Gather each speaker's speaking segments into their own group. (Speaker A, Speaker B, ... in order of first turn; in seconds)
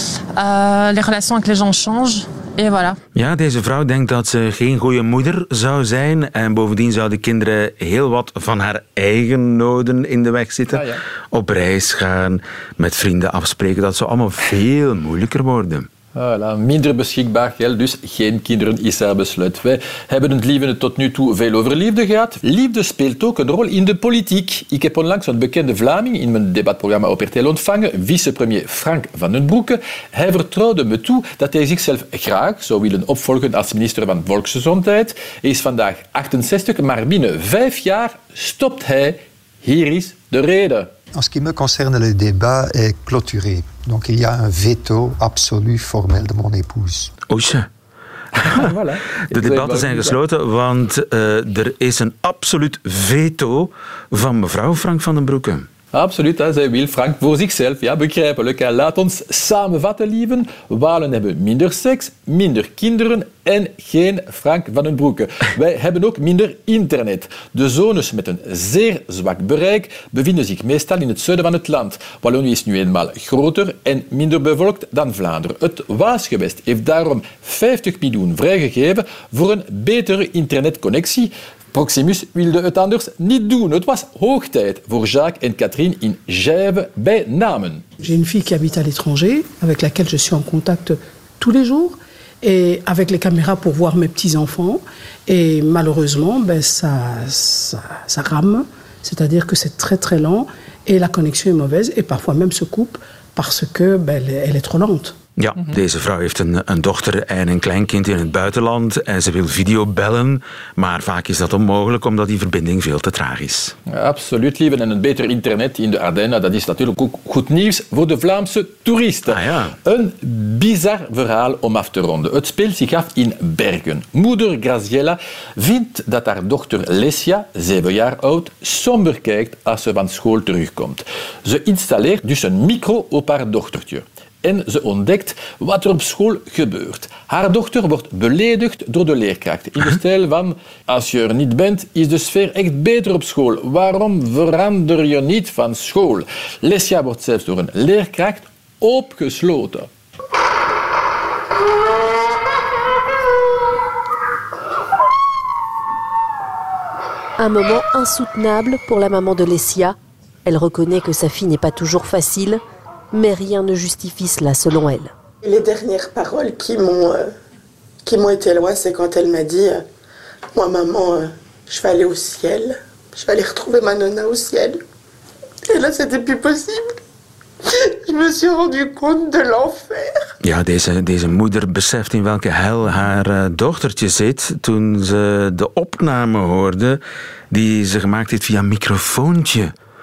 Speaker A: 0.3-3.0
Speaker B: 3.1-15.9, 47.3-47.7, 48.3-48.7, 49.3-55.7, 105.4-113.8, 119.3-119.7, 180.4-187.0, 187.5-189.7
Speaker C: 10.7-11.0, 16.1-40.9, 48.4-50.1, 55.9-87.8, 113.9-149.9
Speaker D: 41.1-47.1
Speaker E: 88.0-105.1
Speaker F: 157.4-165.1
Speaker G: 165.4-167.3, 168.0-169.8, 170.5-174.8, 175.7-177.0, 177.7-180.2